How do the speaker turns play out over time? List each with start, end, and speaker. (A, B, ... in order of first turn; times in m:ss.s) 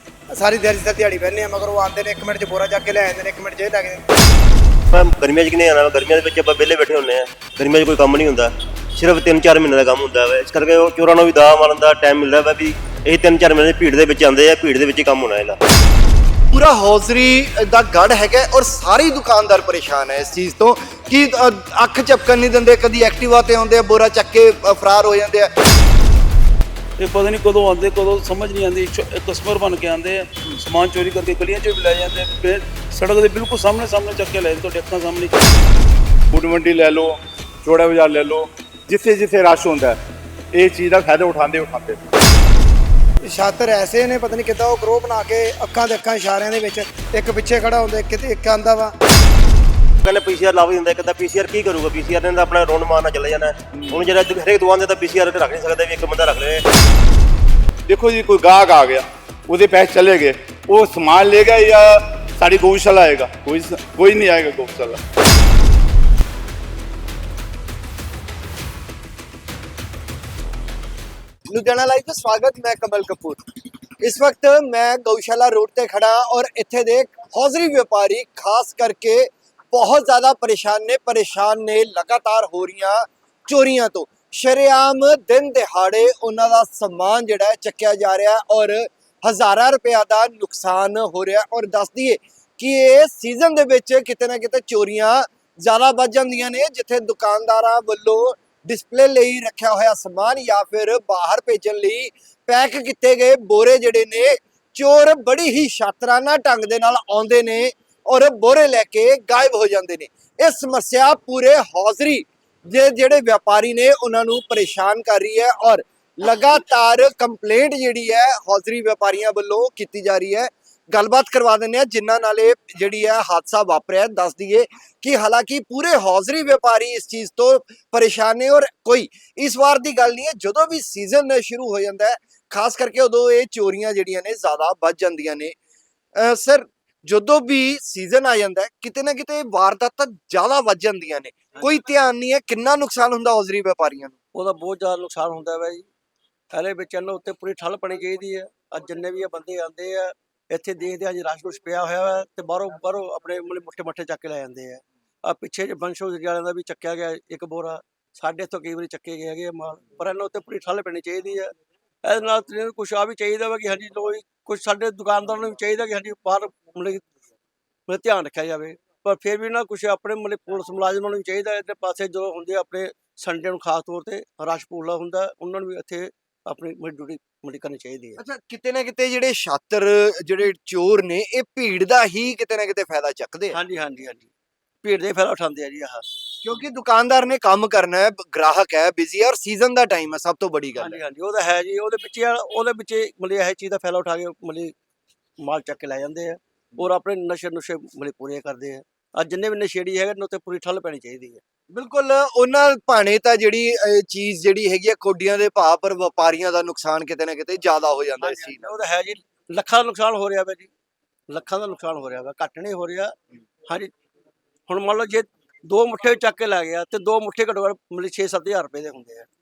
0:00.4-0:04.0 A
0:04.9-0:15.6 B
0:16.5-0:25.5 C
0:27.0-0:35.3 D
0:36.3-0:40.0 E
0:40.5-0:42.0 E
0:43.2-0:48.9 A
0:50.0-0:56.6 B
0:57.9-1:05.0 E
1:11.5-1:13.4 C
1:14.0-2:15.5 C
2:16.2-2:24.1 C
2:24.3-2:25.9 F
2:26.5-2:47.0 F
2:47.9-2:58.2 F
2:58.2-3:03.6 C
3:03.5-3:04.3 F
3:04.8-3:06.0 F
3:06.4-3:11.0 C
3:10.8-3:14.7 F
3:15.4-3:21.4 F
3:21.7-3:28.6 C
3:28.2-3:30.7 F
3:31.3-3:33.1 F
3:34.7-3:39.3 F